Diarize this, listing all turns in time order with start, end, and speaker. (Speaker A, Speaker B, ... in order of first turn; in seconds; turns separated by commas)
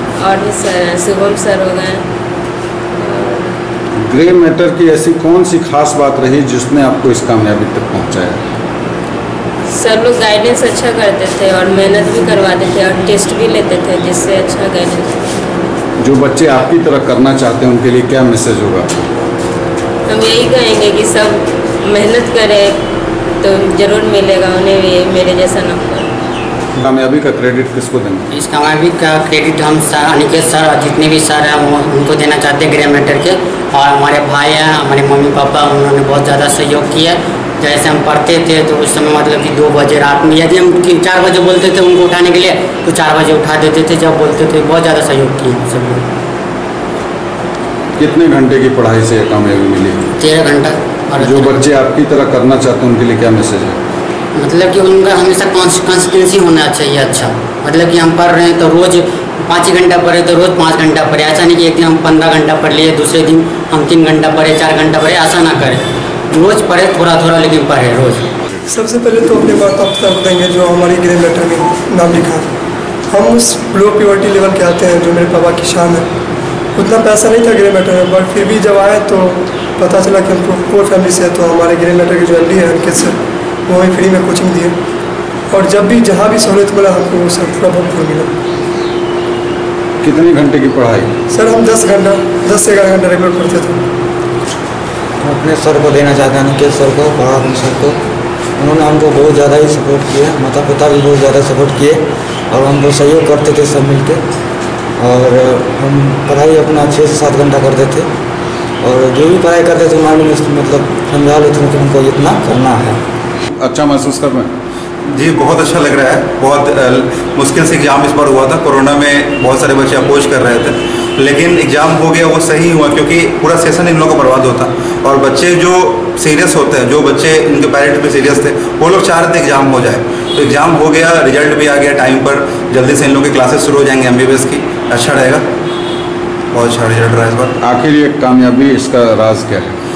Speaker A: 0.2-2.1, Speaker A: 2.9-3.5, Speaker B: 4.0-8.4, Speaker A: 9.7-15.4, Speaker B: 16.0-19.1, Speaker A: 20.1-22.9, Speaker A: 23.4-26.1, Speaker B: 26.8-28.3, Speaker C: 28.3-46.1, Speaker B: 48.0-50.1, Speaker C: 50.2-51.7, Speaker B: 51.2-53.8, Speaker C: 54.4-68.3, Speaker D: 68.7-72.5, Speaker D: 73.1-76.1, Speaker D: 76.8-84.8, Speaker D: 85.5-88.3, Speaker B: 90.0-91.1, Speaker D: 91.3-93.8, Speaker E: 95.2-98.0, Speaker E: 98.6-104.2, Speaker E: 105.0-108.1, Speaker E: 108.8-113.0, Speaker B: 113.6-114.5, Speaker F: 115.0-135.5, Speaker F: 136.5-137.6, Speaker B: 137.6-139.8